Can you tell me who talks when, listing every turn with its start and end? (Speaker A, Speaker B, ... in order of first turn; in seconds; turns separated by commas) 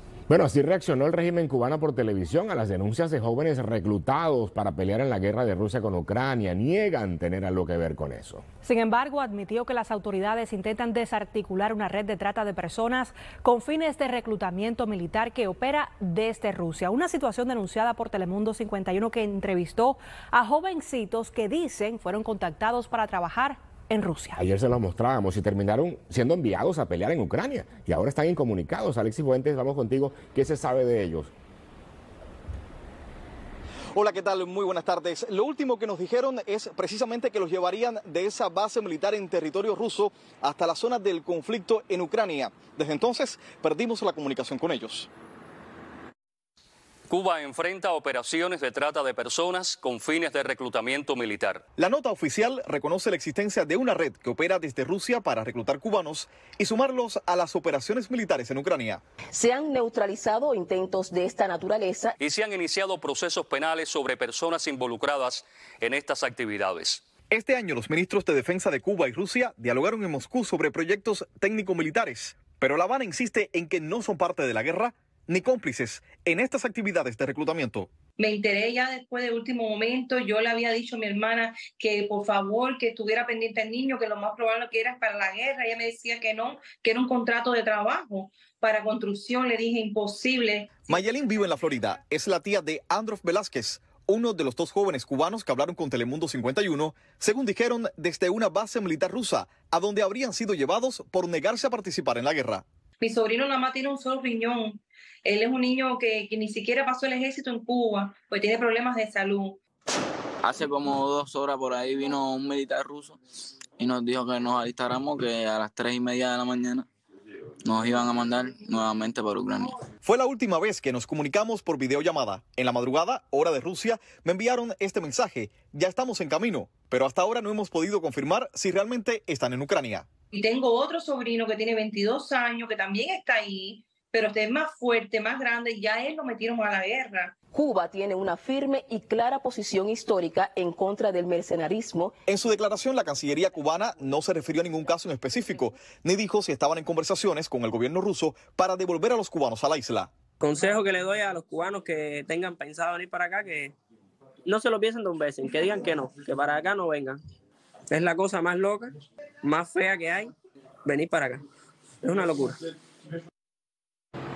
Speaker A: 0.3-8.4, Speaker B: 8.6-24.5, Speaker A: 24.4-31.3, Speaker C: 34.0-45.1, Speaker D: 47.1-51.6, Speaker C: 51.8-59.0, Speaker E: 59.3-62.1, Speaker D: 62.2-67.0, Speaker C: 67.3-77.9, Speaker F: 78.2-90.9, Speaker C: 90.9-102.7, Speaker F: 103.0-109.6, Speaker G: 110.4-116.9, Speaker G: 117.6-119.8, Speaker C: 120.0-130.1, Speaker F: 130.3-137.3, Speaker E: 137.5-142.1, Speaker C: 142.3-150.1, Speaker H: 150.4-153.8, Speaker H: 154.5-157.2, Speaker H: 157.9-160.3, Speaker H: 160.9-161.4, Speaker H: 162.0-162.6